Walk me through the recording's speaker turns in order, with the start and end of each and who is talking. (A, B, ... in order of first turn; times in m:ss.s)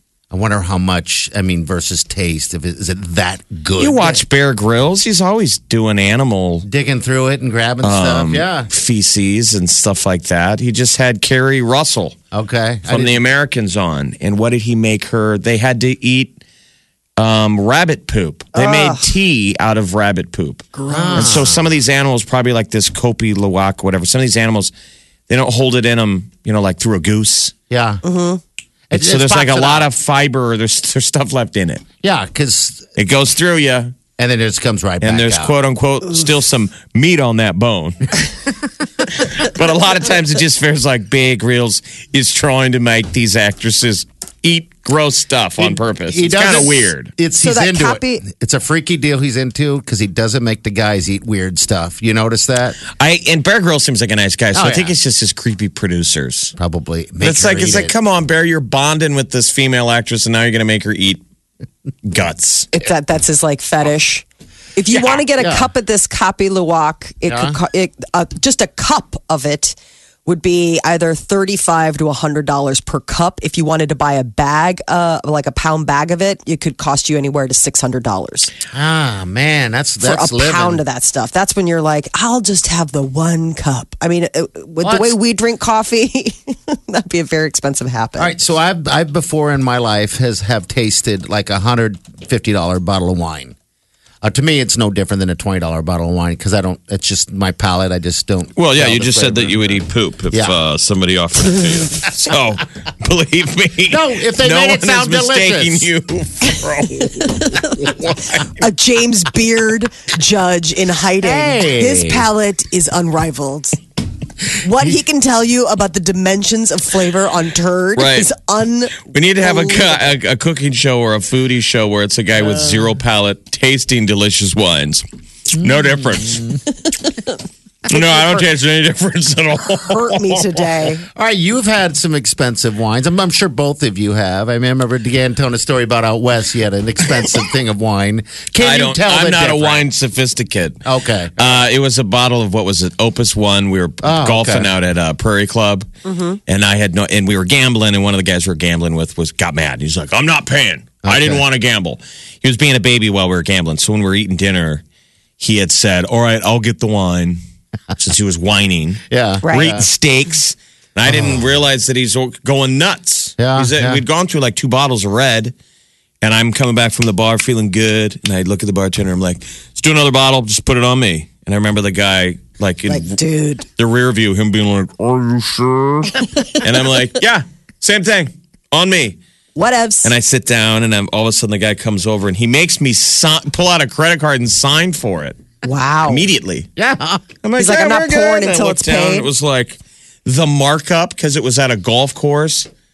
0:00.3-0:04.2 A
0:03.8-0:06.6 B
0:06.6-0:08.7 A
0:07.8-0:12.2 B
0:12.3-0:13.2 A
0:12.9-0:16.4 B
0:17.2-0:24.7 B
0:18.5-0:19.0 C
0:20.7-0:21.4 C
0:20.9-0:21.6 A
0:25.3-0:27.5 B
0:27.7-0:28.0 A
0:28.0-0:28.4 C
0:28.9-0:29.9 A
0:28.9-0:31.8 B
0:32.0-0:32.9 A
0:33.0-0:33.9 B
0:34.2-0:35.5 A
0:35.0-0:38.3 B
0:39.1-0:47.1 B
0:45.6-0:52.8 A
0:47.4-0:48.2 C
0:53.0-0:56.5 B
0:54.5-0:54.9 A
0:56.6-0:57.9 A
0:57.2-1:01.2 B
1:02.0-1:02.7 B
1:02.7-1:18.5 C
1:05.4-1:05.7 A
1:07.3-1:07.6 A
1:18.7-1:20.8 A
1:20.0-1:28.4 C
1:24.8-1:25.2 A
1:28.2-1:33.6 A
1:34.2-1:40.6 A
1:38.6-1:47.1 B
1:43.9-1:45.9 A
1:47.2-1:47.7 C
1:47.6-1:48.2 A
1:48.0-1:48.4 B
1:48.5-1:53.8 C
1:51.2-1:52.3 A
1:54.6-2:00.0 C
1:58.0-1:58.3 B
1:59.0-2:06.6 B
2:05.6-2:06.6 A
2:07.9-2:10.7 B
2:09.8-2:11.0 C
2:11.1-2:19.9 A
2:18.6-2:20.8 B
2:20.8-2:21.6 A
2:21.4-2:25.9 B
2:24.0-2:24.7 A
2:26.0-2:26.4 C
2:26.5-2:34.8 B
2:31.0-2:31.4 A
2:35.4-2:37.4 B
2:38.0-2:45.5 B
2:39.1-2:39.8 A
2:39.4-2:39.7 C
2:41.1-2:41.4 A
2:43.4-2:44.0 A
2:46.2-2:53.2 B
2:52.9-2:53.6 C
2:53.8-2:59.2 B
2:59.6-3:00.1 C
3:00.0-3:05.4 B
3:05.6-3:06.2 C
3:06.1-3:06.7 B
3:06.8-3:07.3 A
3:07.4-3:12.7 B
3:07.6-3:09.3 C